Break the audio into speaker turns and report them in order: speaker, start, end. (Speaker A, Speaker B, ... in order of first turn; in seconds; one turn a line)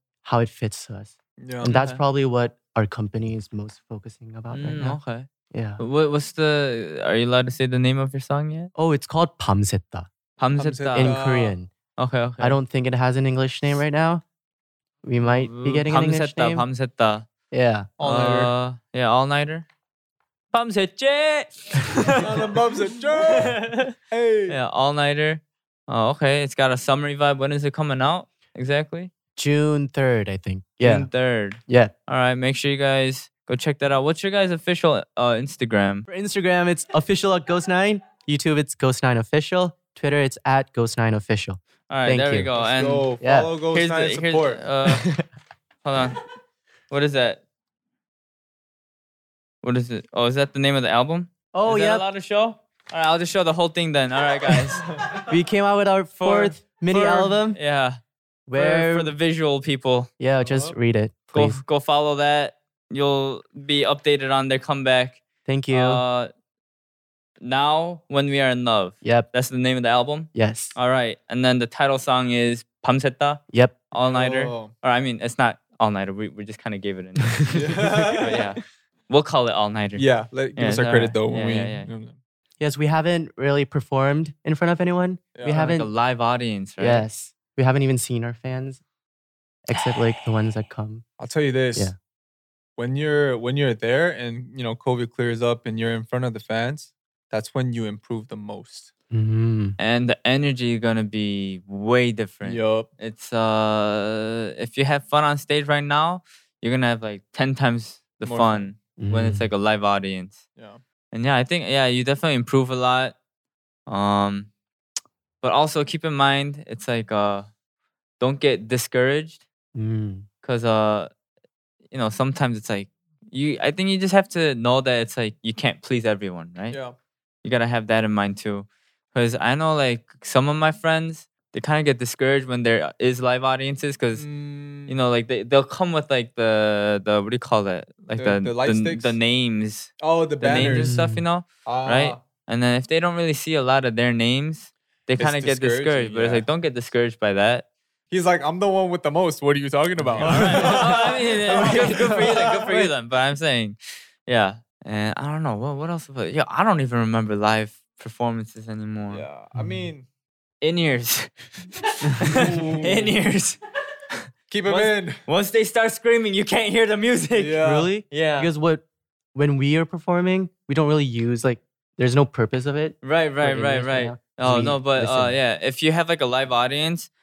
Speaker A: 0.2-5.0
Speaker B: 1.4-1.7
Speaker C: 1.6-2.0
Speaker C: 4.5-5.3
Speaker A: 5.5-5.8
Speaker C: 5.8-8.7
Speaker A: 8.8-10.1
Speaker C: 10.4-11.2
Speaker B: 10.6-11.6
Speaker A: 10.9-11.7
Speaker C: 12.0-12.6
Speaker A: 12.4-14.2
Speaker A: 15.0-16.6
Speaker C: 15.2-17.3
Speaker A: 17.5-17.9
Speaker B: 18.0-18.5
Speaker C: 18.0-19.6
Speaker C: 20.5-23.9
Speaker B: 22.2-24.6
Speaker C: 24.5-29.1
Speaker A: 29.4-31.1
Speaker C: 30.8-36.1
Speaker A: 31.7-31.9
Speaker A: 36.1-42.5
Speaker C: 41.9-43.1
Speaker B: 42.5-44.6
Speaker A: 43.2-43.5
Speaker C: 43.7-45.1
Speaker A: 44.9-45.2
Speaker C: 45.8-46.2
Speaker C: 46.9-47.4
Speaker C: 49.6-54.9
Speaker A: 51.5-52.0
Speaker A: 55.2-57.6
Speaker C: 56.2-58.0
Speaker A: 58.5-59.1
Speaker C: 58.5-60.1
Speaker A: 60.2-61.6
Speaker B: 60.4-60.8
Speaker C: 61.3-66.3
Speaker A: 65.5-66.0
Speaker C: 67.4-81.9
Speaker A: 69.0-69.3
Speaker A: 70.3-70.8
Speaker A: 73.5-73.8
Speaker B: 74.0-74.7
Speaker B: 77.5-78.4
Speaker B: 80.0-82.2
Speaker A: 82.6-85.9
Speaker C: 85.4-87.0
Speaker A: 86.8-88.8
Speaker A: 89.7-91.0
Speaker B: 91.2-91.9
Speaker B: 92.8-98.9
Speaker A: 99.1-99.8
Speaker C: 99.8-110.4
Speaker B: 102.4-102.9
Speaker B: 108.2-108.7
Speaker A: 109.0-109.5
Speaker B: 110.5-110.8
Speaker C: 111.1-113.2
Speaker C: 113.9-114.5
Speaker C: 115.4-117.5
Speaker C: 118.2-119.4
Speaker A: 119.7-120.2
Speaker C: 120.4-121.1
Speaker C: 121.9-126.8
Speaker B: 126.7-127.0
Speaker C: 127.4-134.3
Speaker B: 134.1-134.9
Speaker C: 134.8-147.7
Speaker B: 138.2-139.2
Speaker B: 140.0-140.9
Speaker A: 140.5-141.2
Speaker B: 141.6-142.2
Speaker B: 145.2-146.4
Speaker B: 148.1-152.9
Speaker A: 150.1-152.2
Speaker C: 150.2-159.2
Speaker B: 159.1-160.1
Speaker A: 159.5-159.9
Speaker C: 160.6-163.6
Speaker B: 162.2-163.1
Speaker C: 164.1-168.5
Speaker B: 164.5-165.2
Speaker B: 167.3-167.9
Speaker A: 167.6-175.3
Speaker C: 173.0-177.1